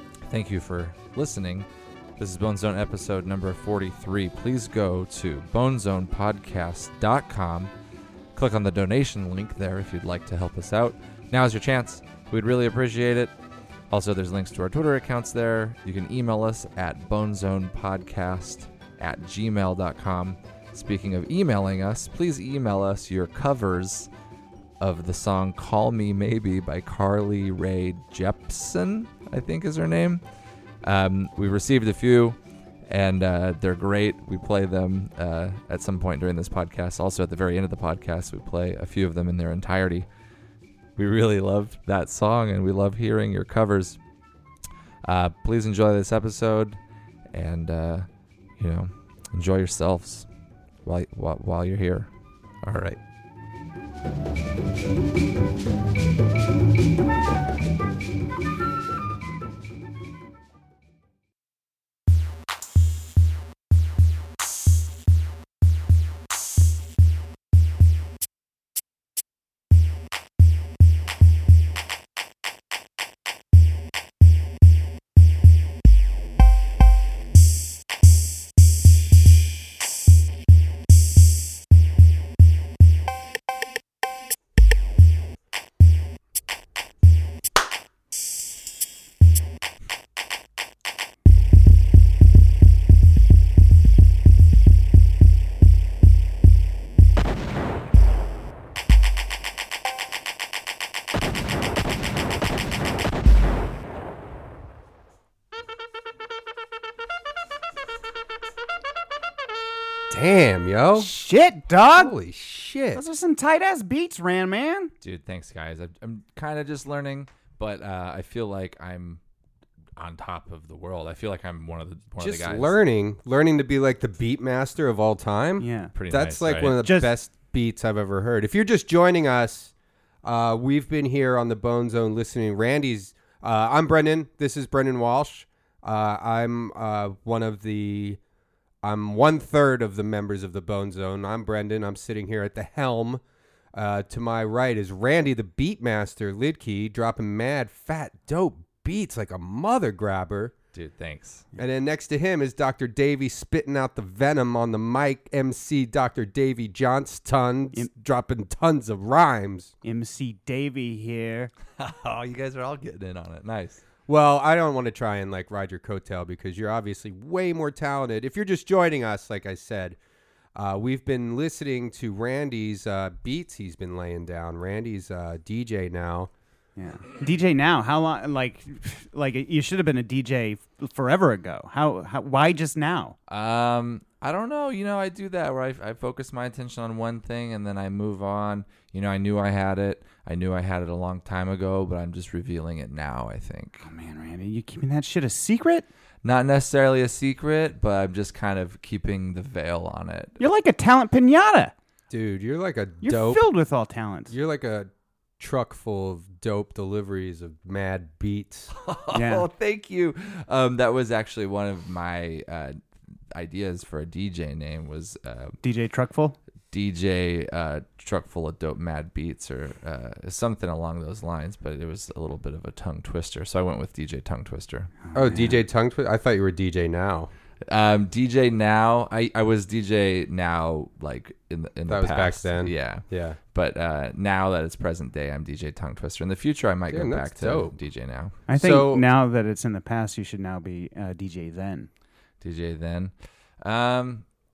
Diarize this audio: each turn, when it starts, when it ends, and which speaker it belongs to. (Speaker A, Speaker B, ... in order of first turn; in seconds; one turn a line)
Speaker A: 0.2-1.7
Speaker A: 2.2-7.7
Speaker A: 8.3-13.3
Speaker A: 13.9-24.1
Speaker A: 24.8-30.2
Speaker A: 30.8-40.1
Speaker A: 41.0-44.0
Speaker A: 45.0-46.8
Speaker A: 47.3-48.1
Speaker A: 48.6-50.2
Speaker A: 50.8-52.1
Speaker A: 52.6-53.0
Speaker B: 110.1-111.1
Speaker C: 111.0-112.1
Speaker B: 112.0-113.0
Speaker C: 112.9-114.9
Speaker A: 115.0-119.2
Speaker A: 120.0-122.8
Speaker B: 122.2-129.7
Speaker C: 125.6-125.9
Speaker A: 125.9-126.8
Speaker C: 126.8-127.1
Speaker B: 130.2-138.2
Speaker B: 138.8-143.2
Speaker B: 143.7-150.5
Speaker A: 150.7-151.4
Speaker B: 151.6-159.7
Speaker C: 159.8-161.5
Speaker A: 161.8-163.8
Speaker B: 164.1-170.0
Speaker B: 170.5-176.3
Speaker C: 176.8-183.2
Speaker A: 183.3-193.8
Speaker C: 193.8-195.8
Speaker A: 196.2-200.4
Speaker C: 200.4-201.7
Speaker B: 202.1-203.4
Speaker C: 203.0-204.3
Speaker B: 204.3-208.7
Speaker A: 208.7-212.8
Speaker C: 209.1-209.4
Speaker A: 213.3-215.6
Speaker C: 215.6-216.4
Speaker A: 216.7-224.9
Speaker C: 225.0-225.6
Speaker B: 225.1-227.3
Speaker A: 227.7-238.4
Speaker B: 231.9-233.4
Speaker B: 236.9-237.7
Speaker C: 238.5-241.9
Speaker B: 238.5-239.1
Speaker A: 242.4-244.2